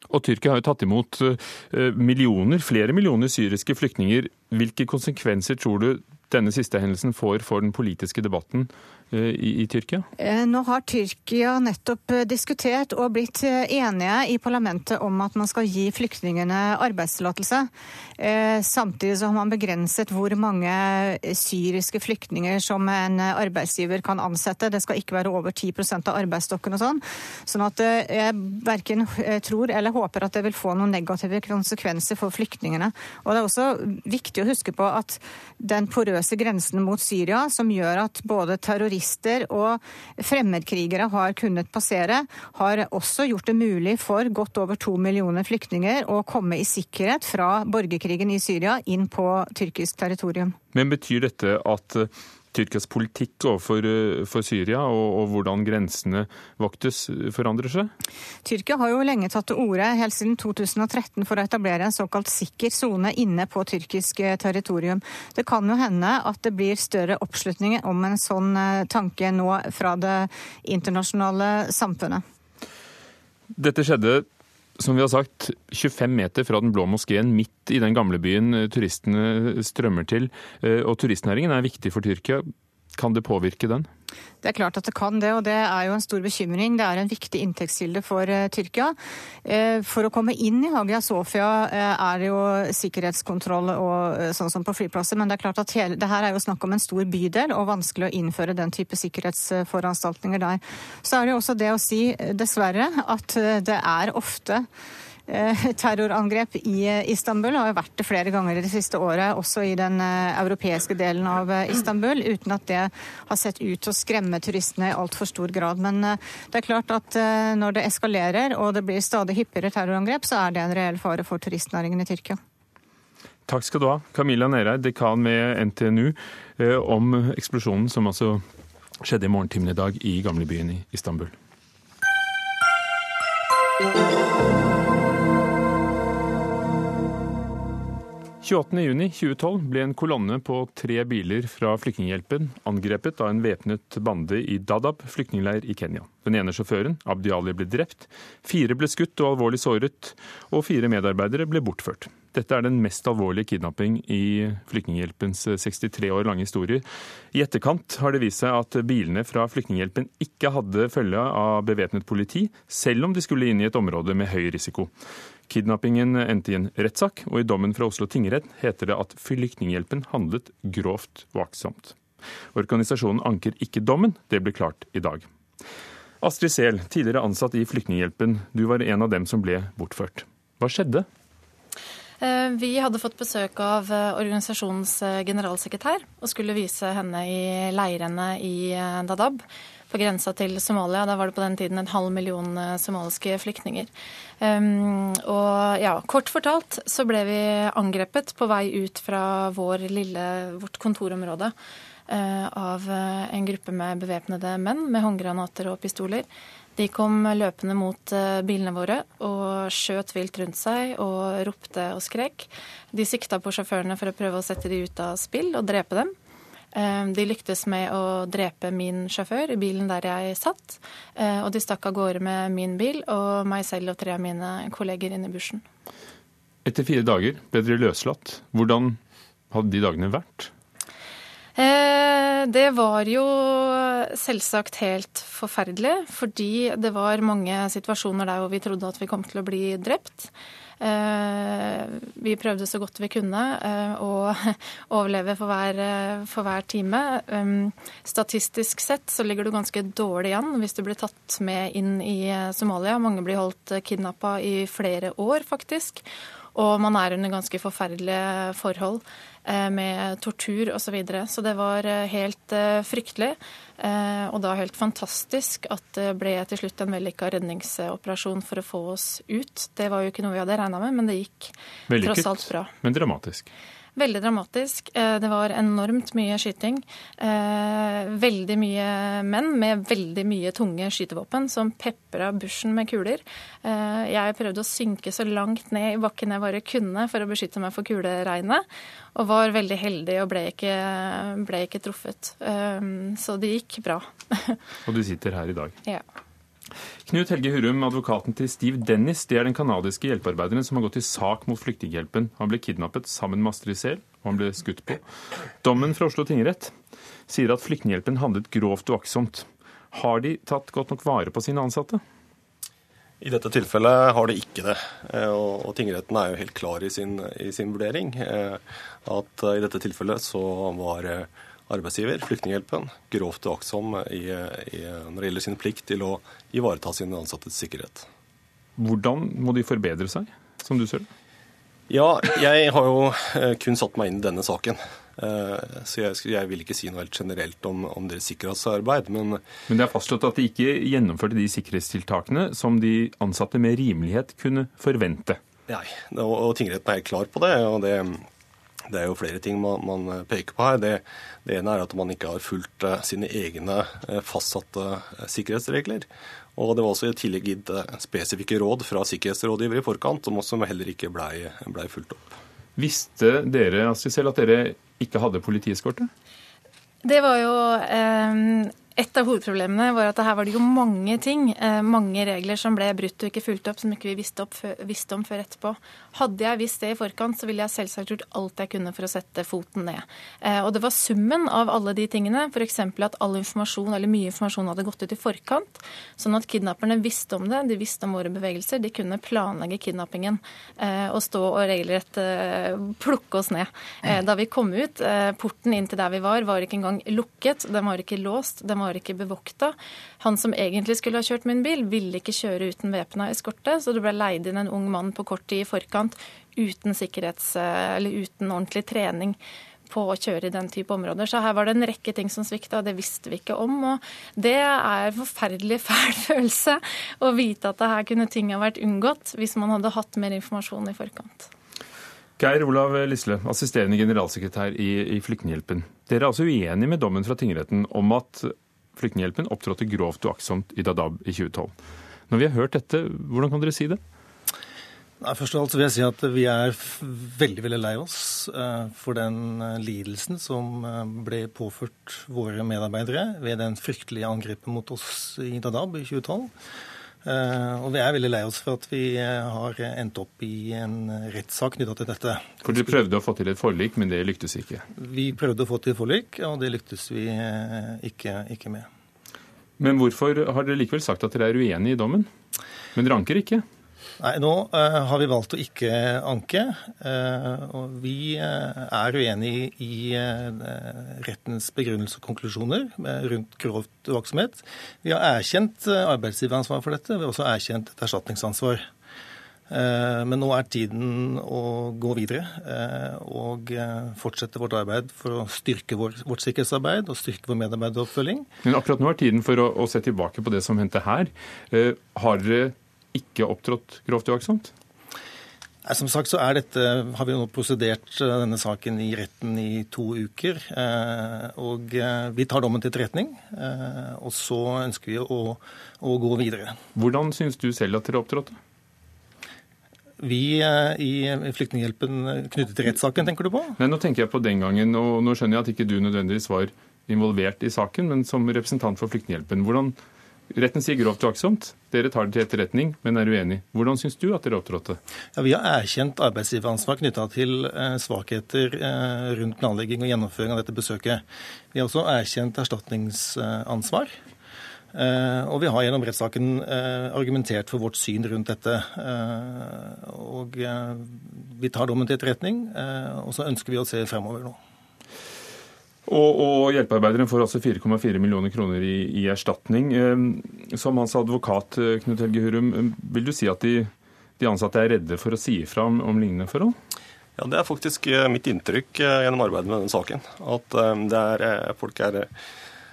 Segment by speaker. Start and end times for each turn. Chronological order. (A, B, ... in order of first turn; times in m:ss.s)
0:00.1-0:10.1 A
0:10.2-0:50.6 B
0:50.7-0:57.9 A
0:58.4-1:12.2 B
1:13.5-1:14.3 A
1:14.8-1:23.9 A
1:24.4-1:44.7 B
1:45.3-2:02.4 B
2:03.5-2:08.4 A
2:09.0-2:11.3 A
2:18.4-2:44.9 A
2:45.5-2:52.0 A
2:52.6-2:55.3 A
2:56.2-3:01.1 A
3:02.2-3:13.9 C
3:14.4-3:21.5 C
3:22.1-3:36.1 C
3:36.7-3:45.6 C
3:46.6-3:49.0 A
3:49.5-3:50.5 A
3:51.6-4:16.0 C
4:16.6-4:32.7 C
4:31.9-4:33.5 A
4:34.0-4:54.6 C
4:54.9-4:55.8 A
4:57.1-5:05.0 A
5:05.6-5:06.7 A
5:07.3-5:12.0 A
5:13.2-5:28.1 D
5:28.8-5:31.1 A
5:31.9-5:39.4 D
5:39.7-5:45.4 A
5:45.7-5:48.3 D
5:48.9-6:02.3 D
6:02.8-6:06.1 A
6:07.0-7:01.5 C
7:02.4-7:11.7 A
7:12.3-7:14.0 A
7:15.2-7:26.5 E
7:27.2-7:33.0 E
7:32.6-7:34.9 A
7:35.0-7:38.9 E
7:39.8-7:42.3 A
7:43.0-7:43.6 A
7:44.2-7:58.9 E
7:59.7-8:08.5 E
8:08.6-8:14.7 A
8:15.8-8:26.8 E
8:27.0-8:28.6 A
8:30.2-8:33.8 E
8:33.8-8:40.0 A
8:40.5-8:45.0 A
8:45.4-8:54.1 E
8:54.9-9:04.6 E
9:06.1-9:16.8 A
9:17.4-9:22.3 D